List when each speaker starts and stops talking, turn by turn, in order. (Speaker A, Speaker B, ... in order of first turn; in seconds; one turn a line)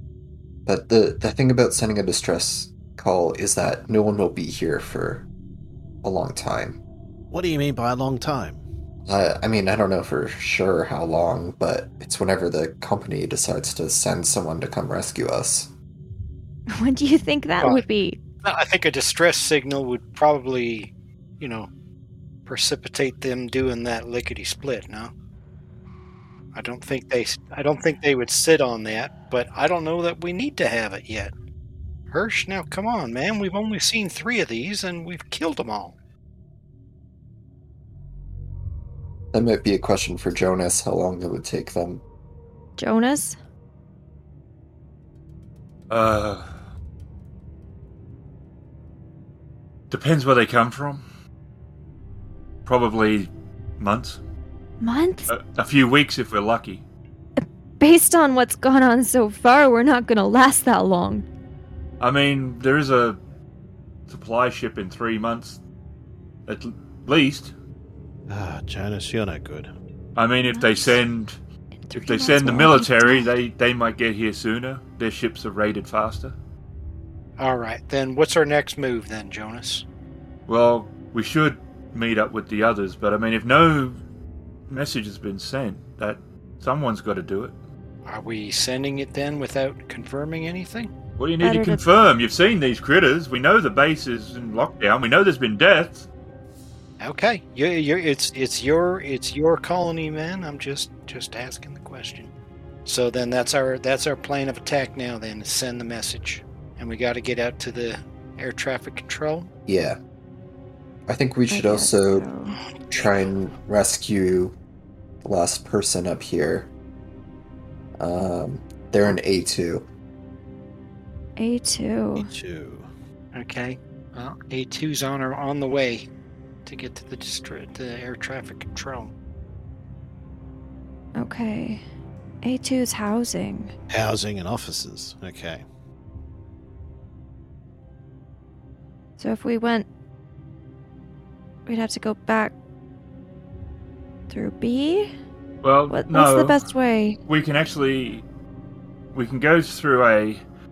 Speaker A: 0.7-5.2
Speaker A: 6.0-6.8
Speaker B: 7.3-8.6
Speaker A: 9.1-15.7
Speaker C: 16.7-18.2
Speaker D: 18.4-21.7
Speaker D: 22.4-25.1
Speaker D: 26.5-31.3
Speaker D: 32.1-35.9
Speaker A: 39.3-42.0
Speaker C: 42.8-43.4
Speaker E: 45.9-46.5
Speaker E: 49.9-51.0
Speaker E: 52.6-54.2
Speaker C: 54.8-55.3
Speaker E: 55.3-56.8
Speaker C: 57.4-61.2
Speaker E: 62.0-63.2
Speaker E: 64.1-65.6
Speaker E: 66.5-67.5
Speaker B: 68.3-69.7
Speaker E: 70.2-71.3
Speaker C: 70.5-71.0
Speaker C: 71.7-73.3
Speaker E: 71.9-76.3
Speaker D: 77.4-79.8
Speaker E: 80.5-84.0
Speaker E: 84.7-87.5
Speaker D: 88.0-90.9
Speaker E: 91.2-96.1
Speaker C: 91.4-91.8
Speaker D: 97.0-102.3
Speaker D: 102.8-109.5
Speaker A: 109.7-110.0
Speaker A: 111.1-112.3
Speaker C: 111.5-112.6
Speaker D: 112.9-113.1
Speaker A: 112.9-114.5
Speaker A: 115.2-116.7
Speaker A: 118.0-119.8
Speaker C: 121.4-122.3
Speaker B: 122.2-122.9
Speaker D: 123.3-126.1
Speaker D: 126.6-129.1
Speaker C: 131.2-131.8
Speaker C: 132.4-133.7
Speaker B: 133.9-135.6
Speaker C: 139.2-139.8
Speaker C: 141.7-142.5
Speaker C: 144.3-145.1
Speaker E: 145.6-146.6
Speaker C: 145.9-147.2
Speaker E: 147.2-148.2
Speaker E: 149.1-150.4